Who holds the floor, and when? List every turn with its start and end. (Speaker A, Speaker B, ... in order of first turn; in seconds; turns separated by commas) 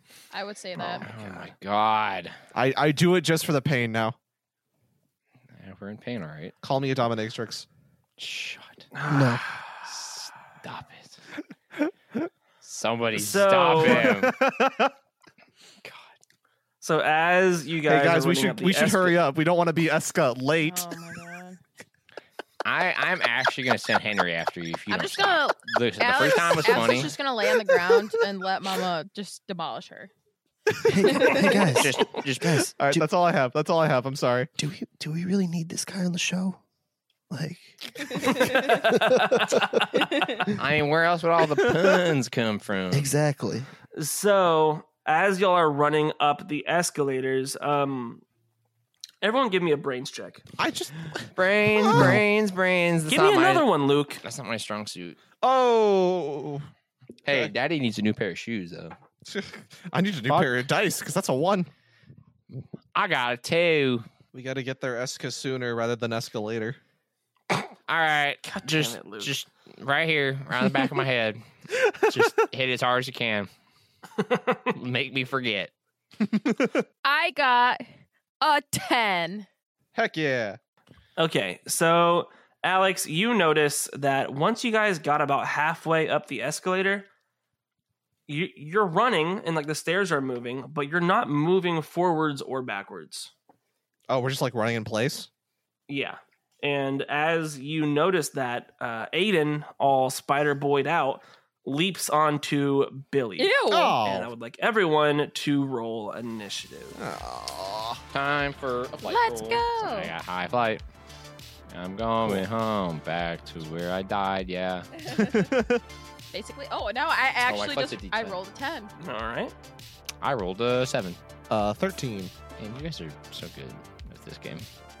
Speaker A: 0.3-1.1, Speaker B: 0.9-2.3, Speaker C: 2.5-4.2, Speaker B: 5.5-6.5, Speaker C: 6.6-7.7, Speaker B: 8.2-8.9, Speaker D: 8.9-9.8, Speaker E: 9.1-9.4, Speaker B: 9.9-11.2, Speaker B: 12.6-14.3, Speaker D: 13.1-14.1, Speaker C: 13.8-14.9, Speaker B: 15.8-16.1, Speaker D: 16.8-19.2, Speaker C: 17.8-20.9, Speaker A: 20.6-21.6, Speaker B: 22.6-27.2, Speaker A: 24.9-30.1, Speaker E: 30.8-33.0, Speaker A: 31.1-31.4, Speaker B: 31.3-32.7, Speaker C: 32.8-34.5, Speaker E: 34.6-36.6, Speaker E: 37.3-39.9, Speaker A: 38.2-38.5, Speaker D: 38.5-39.9, Speaker A: 40.0-40.4, Speaker B: 40.6-43.1, Speaker E: 42.9-43.7, Speaker D: 44.0-48.2, Speaker D: 49.2-50.4, Speaker C: 50.6-52.2, Speaker B: 51.4-53.6, Speaker E: 51.9-52.2, Speaker D: 53.1-54.2, Speaker B: 54.2-55.2, Speaker C: 55.4-56.6, Speaker B: 57.2-58.9, Speaker C: 57.3-57.5, Speaker C: 59.2-61.7, Speaker B: 62.5-64.0, Speaker C: 64.3-66.8, Speaker B: 67.9-71.4, Speaker D: 68.4-69.3, Speaker C: 71.8-72.3, Speaker B: 72.1-73.5, Speaker D: 74.2-74.7, Speaker B: 74.7-75.7, Speaker C: 76.2-76.8, Speaker A: 77.0-77.8, Speaker A: 78.4-79.5, Speaker C: 79.9-80.6, Speaker D: 81.2-87.1, Speaker D: 88.3-93.3, Speaker C: 94.1-95.3, Speaker D: 95.9-107.0, Speaker A: 103.4-104.0, Speaker C: 103.7-104.3, Speaker C: 106.9-108.0, Speaker B: 108.1-110.8, Speaker A: 109.0-110.1, Speaker B: 111.7-114.9, Speaker A: 115.1-115.3, Speaker C: 115.1-115.8, Speaker A: 116.3-118.9, Speaker B: 117.4-118.4, Speaker D: 119.0-119.5, Speaker B: 120.2-121.2, Speaker C: 121.5-122.3, Speaker B: 122.6-124.7